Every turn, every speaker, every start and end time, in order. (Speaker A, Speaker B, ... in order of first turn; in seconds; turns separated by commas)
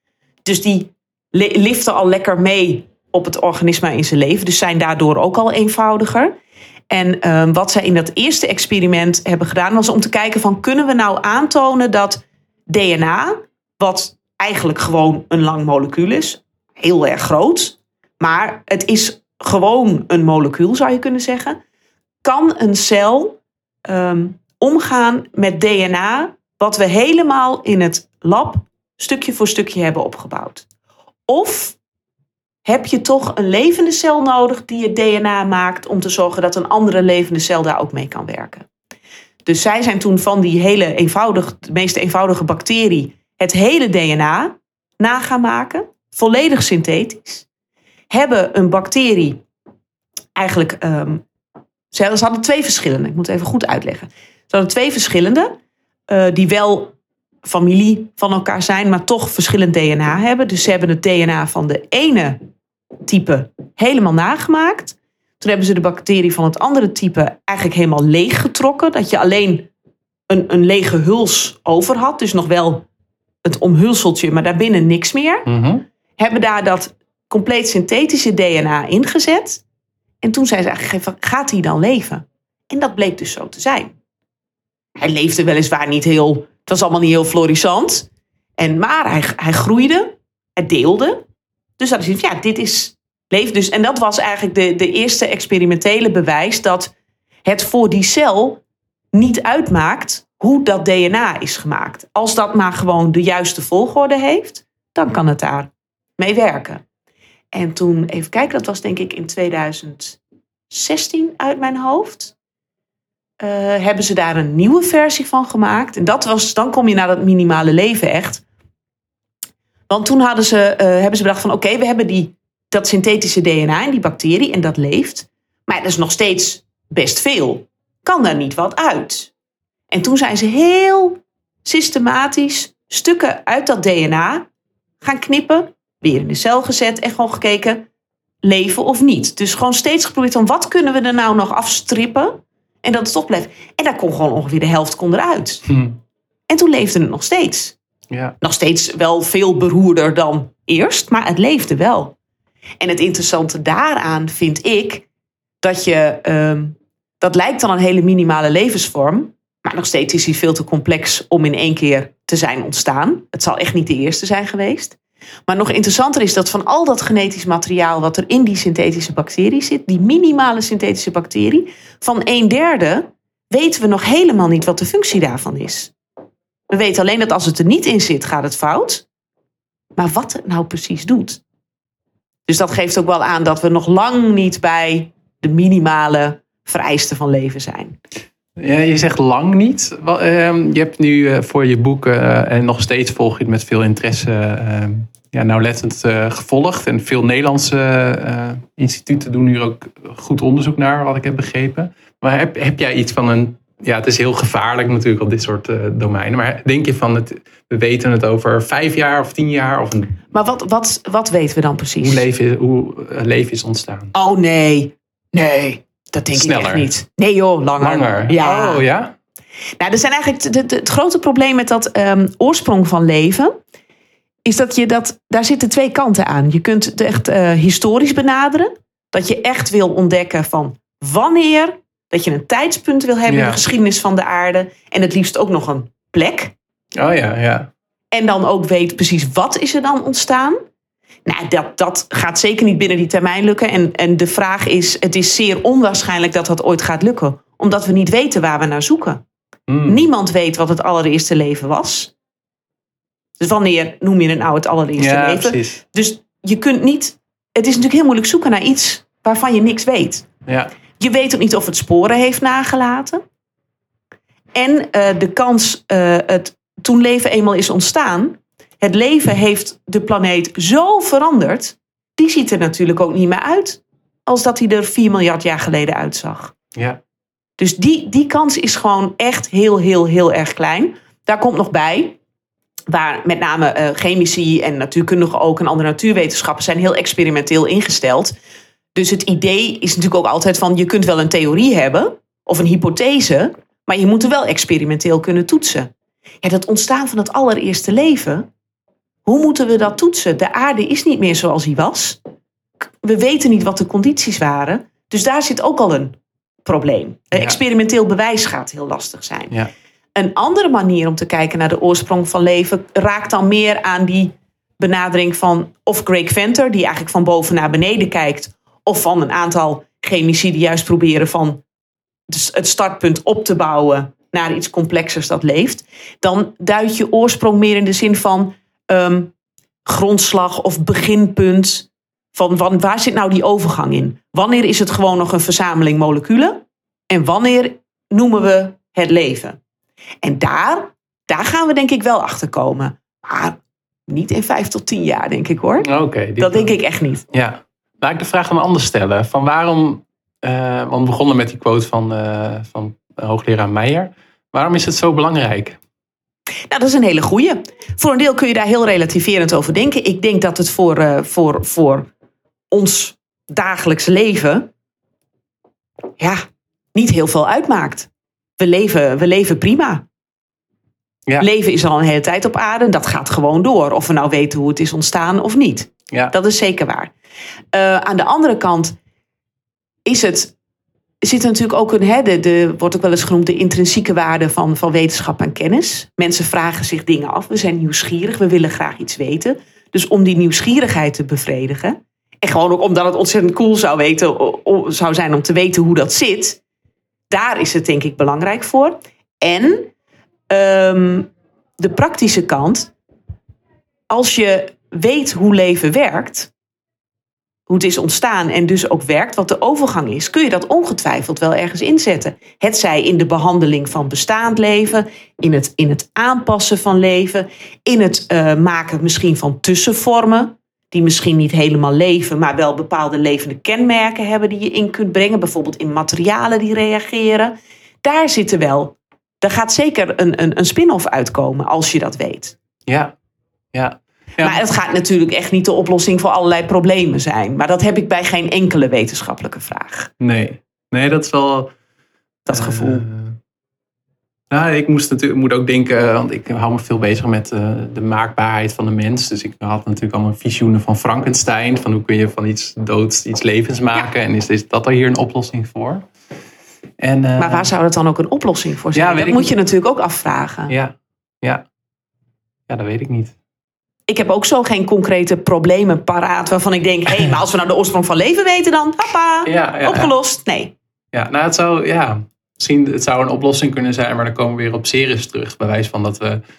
Speaker A: 0.4-6.3, Speaker A: 6.9-21.6, Speaker A: 22.2-30.6, Speaker A: 31.3-31.8, Speaker A: 32.6-38.6, Speaker A: 39.4-47.5, Speaker A: 48.1-49.4, Speaker A: 50.4-51.2, Speaker A: 51.9-55.5, Speaker A: 56.1-56.9, Speaker A: 57.4-62.4, Speaker A: 63.0-69.7, Speaker A: 70.3-72.8, Speaker A: 73.4-75.5, Speaker B: 75.5-75.8, Speaker A: 76.2-79.6, Speaker A: 80.2-83.9, Speaker A: 85.0-91.2, Speaker A: 91.8-96.9, Speaker A: 97.4-98.6, Speaker A: 99.1-106.8, Speaker A: 107.5-110.2, Speaker A: 110.7-112.3, Speaker A: 113.4-118.4, Speaker A: 119.9-129.3, Speaker A: 129.9-134.5, Speaker A: 135.0-137.9, Speaker A: 138.4-145.7, Speaker B: 145.7-146.0, Speaker A: 146.5-147.8, Speaker B: 148.1-148.3, Speaker A: 148.4-152.2, Speaker A: 152.8-155.1, Speaker A: 155.6-175.9, Speaker A: 176.7-179.1, Speaker A: 180.0-181.4, Speaker A: 182.5-188.0, Speaker B: 188.6-210.2, Speaker A: 210.3-212.2, Speaker B: 212.0-214.1, Speaker A: 214.1-218.8, Speaker B: 216.3-216.9, Speaker B: 217.8-219.1, Speaker A: 219.8-223.6, Speaker A: 224.4-236.5, Speaker B: 233.3-233.6, Speaker B: 236.9-237.7, Speaker A: 238.1-240.6, Speaker A: 241.2-249.2, Speaker B: 249.7-250.0, Speaker A: 249.9-252.1, Speaker A: 253.4-260.3, Speaker B: 255.0-255.8, Speaker B: 260.4-260.7, Speaker A: 261.0-263.2, Speaker A: 264.5-276.5, Speaker A: 277.6-282.2, Speaker A: 282.9-288.4, Speaker A: 288.9-295.9, Speaker A: 296.4-298.5, Speaker A: 299.2-302.2, Speaker A: 303.0-309.5, Speaker B: 307.3-307.6, Speaker A: 310.1-321.6, Speaker A: 322.3-329.3, Speaker A: 329.9-339.6, Speaker A: 340.2-343.6, Speaker A: 344.1-347.2, Speaker B: 345.8-346.7, Speaker B: 347.3-355.8, Speaker A: 356.7-362.1, Speaker A: 362.7-364.7, Speaker A: 366.9-370.0, Speaker A: 371.4-377.1, Speaker A: 377.7-378.9, Speaker A: 380.1-380.5, Speaker A: 381.2-396.6, Speaker A: 397.3-399.9, Speaker A: 400.5-402.9, Speaker A: 404.1-406.5, Speaker A: 407.7-432.6, Speaker B: 432.9-433.1, Speaker B: 433.7-434.6, Speaker A: 434.4-440.1, Speaker B: 440.2-441.7, Speaker A: 442.4-443.0, Speaker B: 442.5-443.4, Speaker B: 444.5-456.1, Speaker B: 457.0-457.7, Speaker A: 457.4-460.7, Speaker B: 458.9-459.5, Speaker B: 460.7-461.6, Speaker B: 462.7-463.3, Speaker A: 464.1-470.7, Speaker B: 469.4-470.1, Speaker B: 471.1-476.4